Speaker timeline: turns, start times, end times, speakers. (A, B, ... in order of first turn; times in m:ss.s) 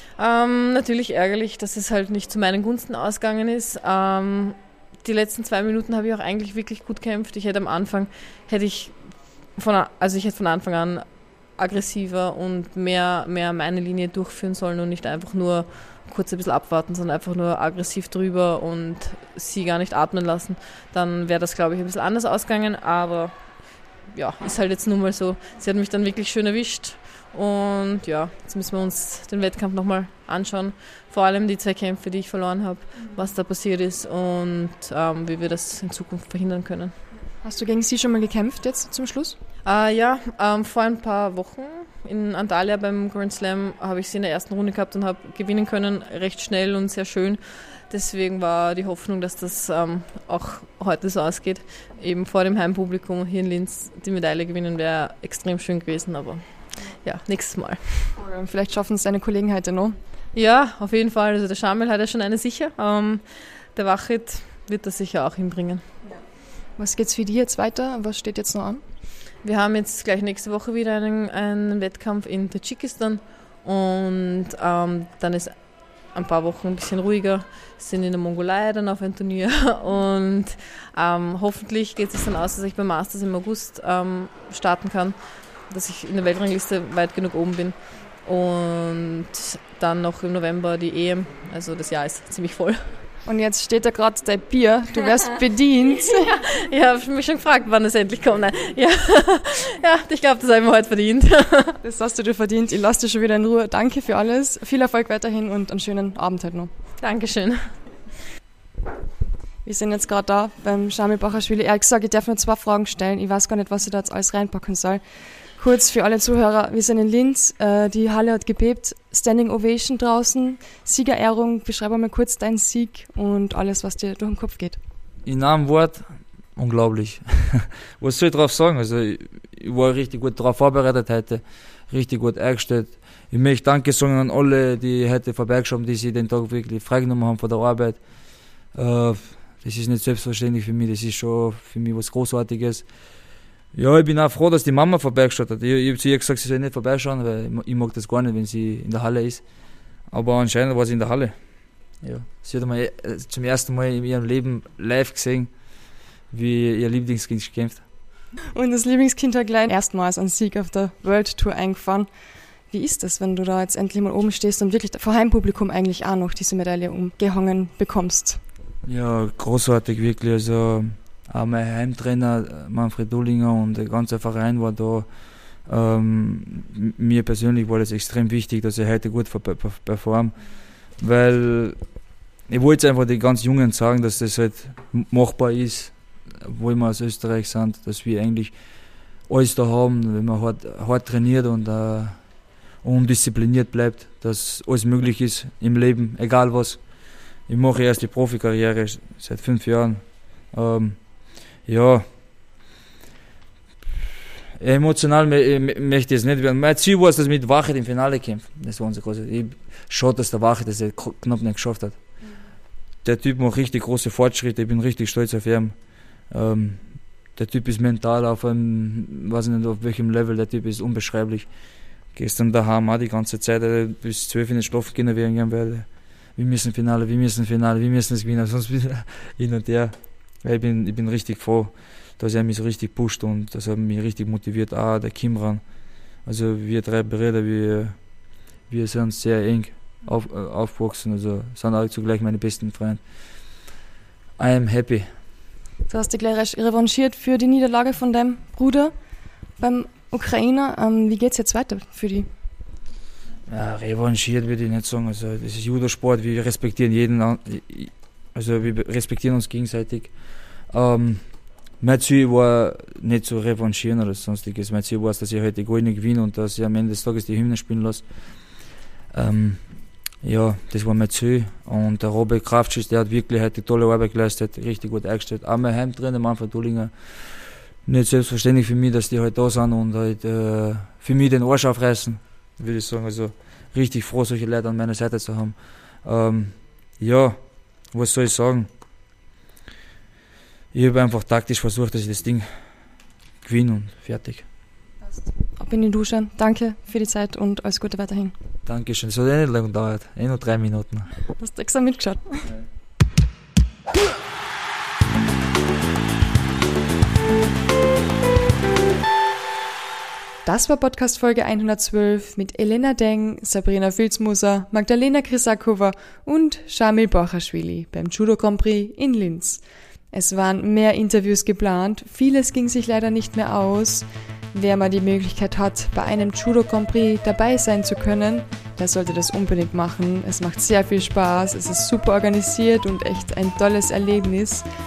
0:00.2-0:36.9 A
0:37.4-0:39.4 B
0:39.6-0:58.1 A
0:58.2-1:00.0 B
1:00.3-1:05.9 A
1:06.7-1:08.8 B
1:09.4-1:33.0 A
1:33.2-1:36.3 B
1:36.1-1:41.8 A
1:41.8-1:46.7 B
1:47.0-1:47.9 A
1:49.6-2:04.8 B
2:05.2-2:37.9 C
2:38.5-2:48.4 B
2:48.8-3:22.4 C
3:24.6-3:32.2 C
3:33.0-4:03.7 C
4:04.4-4:05.2 C
4:05.9-4:12.3 B
4:13.5-4:48.7 C
4:50.7-4:54.5 C
4:55.0-4:58.3 B
4:58.6-5:01.3 C
5:01.4-5:02.4 B
5:10.4-5:34.6 B